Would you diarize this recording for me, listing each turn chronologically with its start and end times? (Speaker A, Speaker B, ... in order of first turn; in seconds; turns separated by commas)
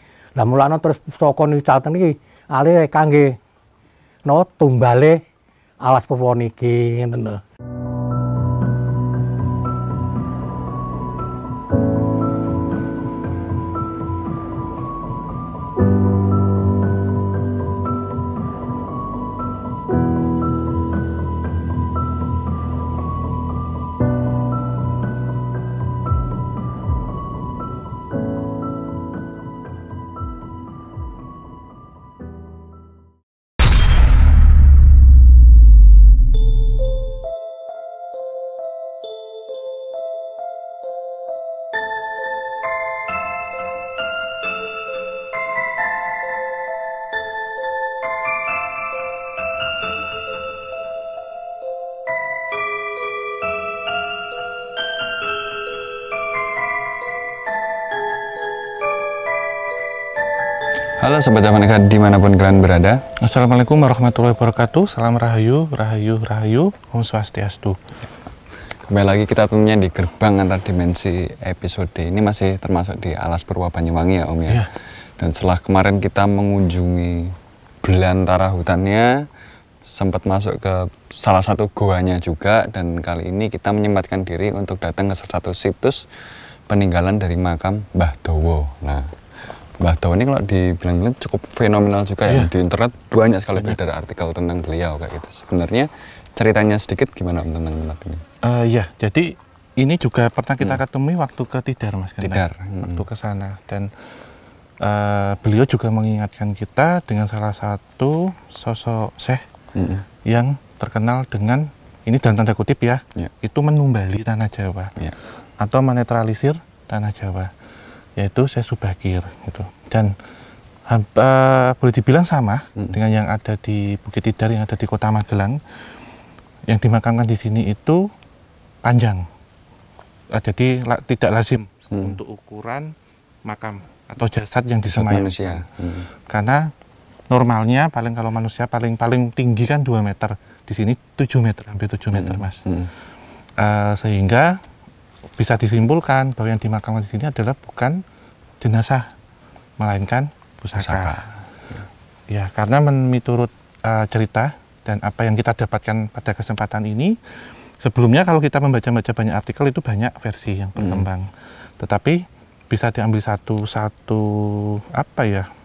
Speaker A: 0.3-3.4, Speaker A: 4.2-5.2, Speaker A: 5.8-7.4, Speaker B: 61.0-63.0, Speaker C: 63.2-67.8, Speaker B: 68.8-74.7, Speaker B: 75.2-79.1, Speaker B: 79.8-86.0, Speaker B: 86.7-89.1, Speaker B: 89.8-98.2, Speaker C: 98.4-103.9, Speaker B: 102.2-103.0, Speaker C: 104.8-109.4, Speaker B: 109.7-110.1, Speaker C: 110.2-114.9, Speaker C: 115.6-117.5, Speaker C: 118.2-120.1, Speaker C: 120.9-125.6, Speaker C: 126.7-128.1, Speaker C: 128.8-129.2, Speaker C: 130.3-132.9, Speaker C: 133.4-135.6, Speaker B: 134.9-136.1, Speaker C: 136.3-136.7, Speaker C: 137.3-142.6, Speaker B: 142.1-142.9, Speaker C: 143.6-144.6, Speaker C: 145.4-148.0, Speaker C: 148.6-149.1, Speaker C: 149.8-151.3, Speaker B: 150.7-151.3, Speaker C: 152.3-157.2, Speaker C: 157.8-161.3, Speaker B: 160.8-161.1, Speaker C: 161.8-165.5